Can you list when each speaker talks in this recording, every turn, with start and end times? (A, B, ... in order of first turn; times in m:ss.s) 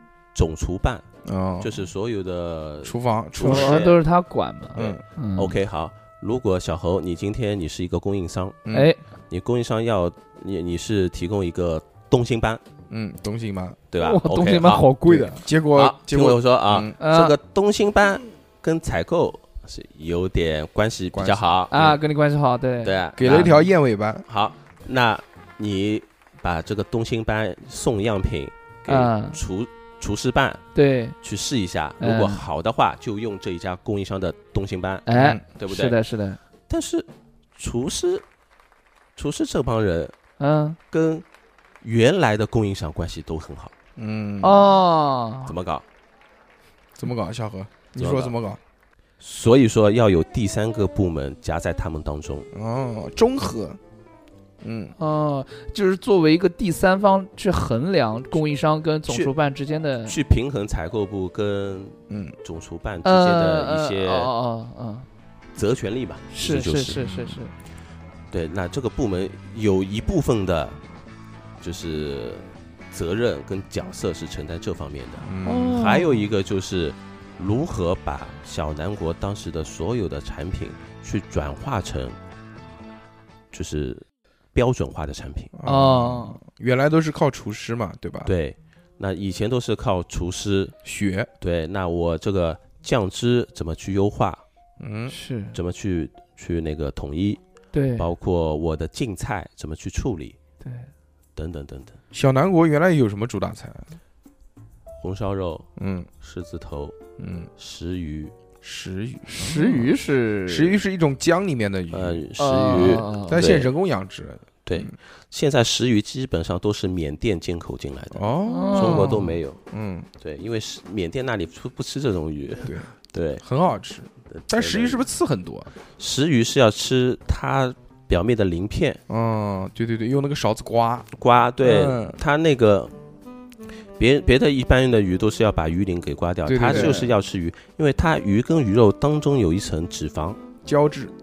0:00.3-0:01.1 A
0:01.2-0:01.8 B
0:01.6-0:04.0 A
0:02.8-0:03.8 B
0:03.4-0:05.6 C
0:04.8-0:08.6 A
0:08.7-0:08.9 B
0:08.7-0:09.0 C
0:09.3-0:12.6 A
0:12.9-0:13.8 B
0:13.9-0:14.9 A
0:14.0-0:15.4 C
0:15.1-0:17.0 B
0:15.7-0:22.0 A
0:17.0-0:17.4 C
0:21.1-0:21.4 B
0:21.7-0:23.7 C
0:22.8-0:23.5 A
0:23.2-0:24.2 B
0:24.3-0:30.6 A
0:28.9-0:29.4 C
0:30.8-0:31.2 C
0:31.2-0:36.0 A
0:32.0-0:32.4 C
0:35.1-0:36.4 C
0:35.1-0:35.4 B
0:36.7-0:38.2 A
0:39.2-0:40.2 A
0:40.4-0:40.8 C
0:40.9-0:41.2 A
0:41.8-0:43.7 A
0:44.0-0:44.7 B
0:44.4-0:45.6 C
0:45.5-0:45.8 A
0:47.0-0:48.6 B
0:48.0-0:48.4 A
0:49.2-0:52.5 A
0:52.5-0:53.8 B
0:54.6-0:54.9 B
0:55.0-1:00.2 C
0:59.1-0:59.3 A
1:00.0-1:04.3 A
1:02.1-1:02.4 B
1:03.0-1:05.1 C
1:05.6-1:07.0 A
1:06.3-1:07.5 C
1:07.0-1:07.4 B
1:08.3-1:10.8 A
1:11.6-1:22.2 A
1:15.3-1:15.8 B
1:15.4-1:16.3 C
1:23.5-1:25.5 A
1:25.6-1:28.3 B
1:25.6-1:26.4 C
1:28.2-1:30.8 A
1:30.8-1:31.3 B
1:31.4-1:34.4 A
1:34.8-1:35.2 B
1:35.1-1:35.6 C
1:35.5-1:37.4 A
1:37.7-1:38.1 C
1:38.0-1:40.4 A
1:40.6-1:40.9 C
1:41.4-1:42.0 A
1:42.1-1:43.9 B
1:45.0-1:45.7 A
1:45.8-1:46.1 B
1:46.2-1:47.0 A
1:47.2-1:47.5 B
1:47.6-1:48.3 A
1:48.6-1:49.9 B
1:49.3-1:50.8 C
1:50.5-1:52.3 B
1:51.9-1:53.7 A
1:52.4-1:53.5 C
1:52.8-1:54.9 B
1:54.7-1:59.6 A
1:58.1-2:00.1 B
1:58.5-1:59.4 C
2:00.2-2:03.4 A
2:02.6-2:05.7 B
2:04.3-2:05.0 A
2:06.0-2:09.0 A
2:09.1-2:11.1 B
2:11.1-2:12.9 A
2:11.6-2:12.2 B
2:14.0-2:20.4 A
2:16.4-2:17.1 B
2:16.7-2:17.0 C
2:20.6-2:21.1 B